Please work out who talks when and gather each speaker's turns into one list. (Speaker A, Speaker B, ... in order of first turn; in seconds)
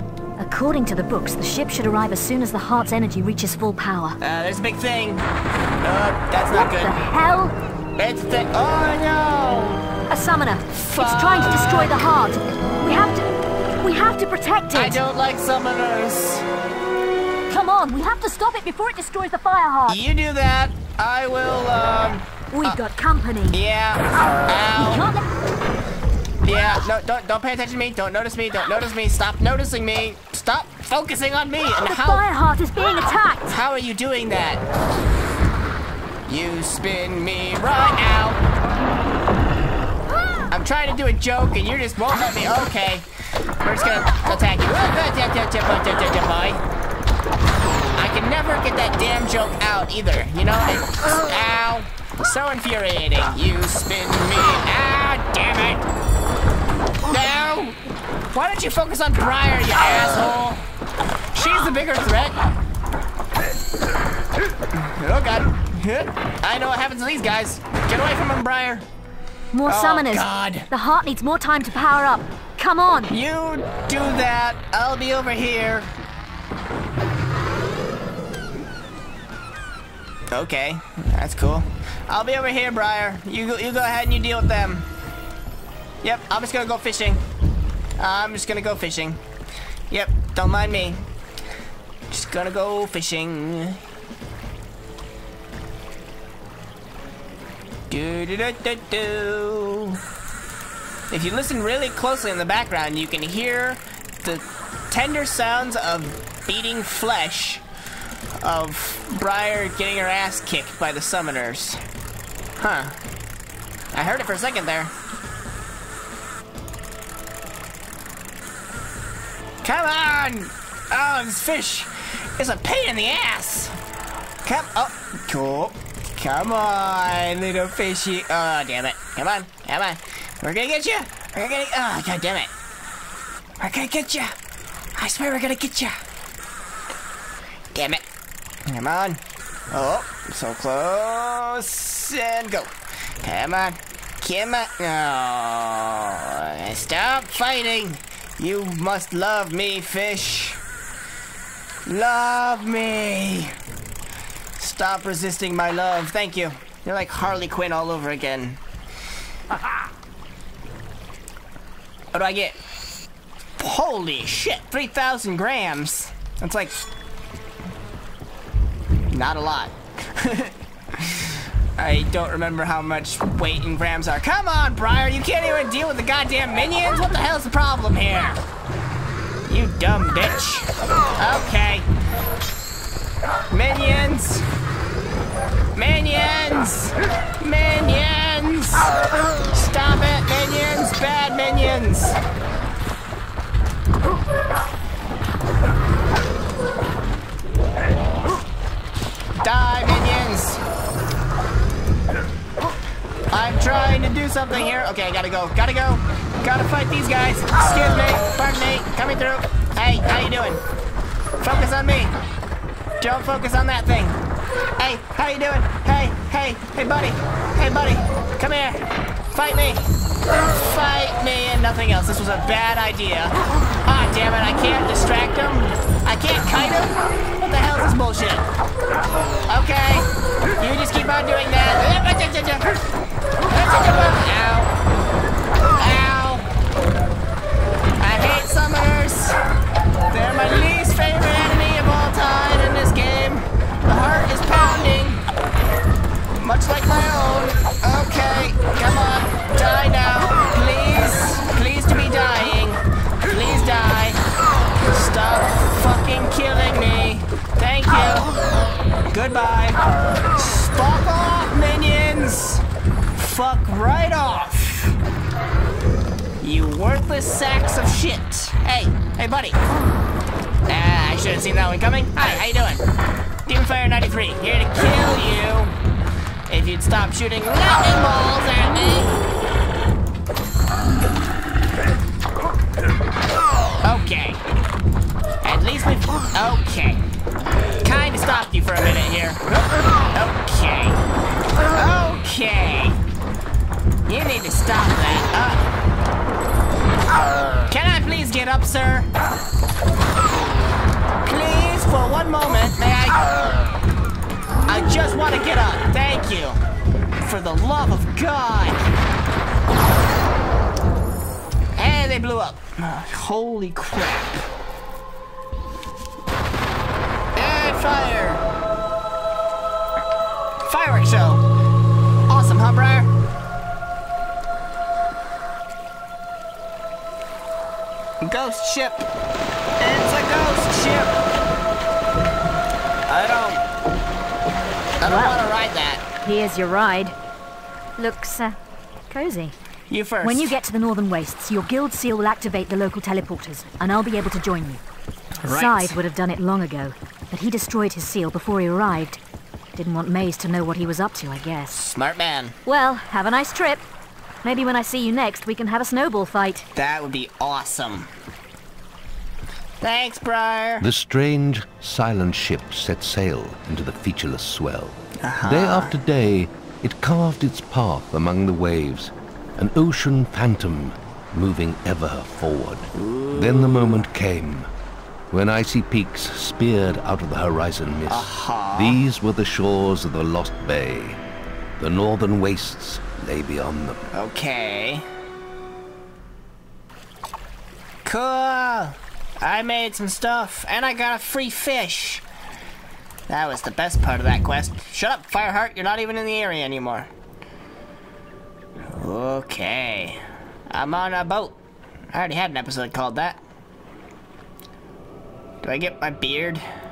Speaker A: 0.4-4.2, 6.5-7.5, 10.1-15.0, 17.5-20.0, 22.5-23.6, 24.7-25.3, 31.9-33.5, 69.5-73.1, 335.0-335.4, 336.2-337.1, 338.0-338.6, 339.1-339.5, 340.2-344.8, 345.5-349.2, 349.8-351.8, 352.6-353.8, 354.4-356.7
Speaker B: 4.2-5.2, 5.8-7.0, 8.0-9.8, 10.8-12.0, 14.7-16.4, 19.9-22.8, 23.5-25.1, 26.4-32.2, 33.5-34.6, 36.3-38.4, 40.5-43.1, 43.6-46.6, 48.0-55.9, 57.1-57.8, 58.3-60.7, 61.3-62.4, 64.8-68.8, 69.7-70.7, 73.1-75.9, 80.3-84.9, 86.0-87.2, 88.0-89.2, 89.9-91.0, 92.1-93.8, 97.9-100.0, 101.1-107.6, 108.4-111.8, 112.6-113.0, 113.9-114.9, 119.6-123.8, 124.5-132.5, 133.6-134.3, 135.0-136.0, 137.7-138.0, 138.7-150.6, 151.9-153.6, 154.6-158.6, 162.1-162.6, 163.6-166.8, 169.1-178.4, 179.5-181.9, 183.5-184.5, 185.8-188.9, 189.5-192.2, 199.4-200.6, 203.3-210.6, 211.4-212.2, 213.0-214.2, 214.8-219.9, 220.4-228.5, 229.5-232.8, 233.5-234.7, 235.8-236.5, 238.0-239.4, 240.1-245.2, 246.4-254.2, 254.9-258.3, 259.1-259.8, 260.3-262.6, 263.1-265.0, 266.4-269.6, 270.7-272.8, 273.5-275.7, 276.5-279.1, 283.8-284.4, 285.4-287.0, 287.8-289.5, 290.1-291.0, 291.7-293.0, 294.1-295.7, 297.7-299.1, 301.2-303.4, 304.7-306.6, 307.2-308.9, 311.8-314.5, 317.4-318.4, 320.6-321.4, 322.3-323.1, 328.2-329.1, 329.8-331.2, 333.1-333.6, 335.0-336.0, 339.9-340.6, 345.4-346.0, 351.7-352.6, 356.8-358.1, 359.8-360.9, 365.2-366.0, 372.9-374.1, 378.1-379.0, 384.1-385.1, 388.1-392.2, 393.3-397.1, 398.9-401.6, 402.1-403.4, 405.6-406.6
Speaker C: 360.8-374.7, 375.3-381.2, 381.8-384.0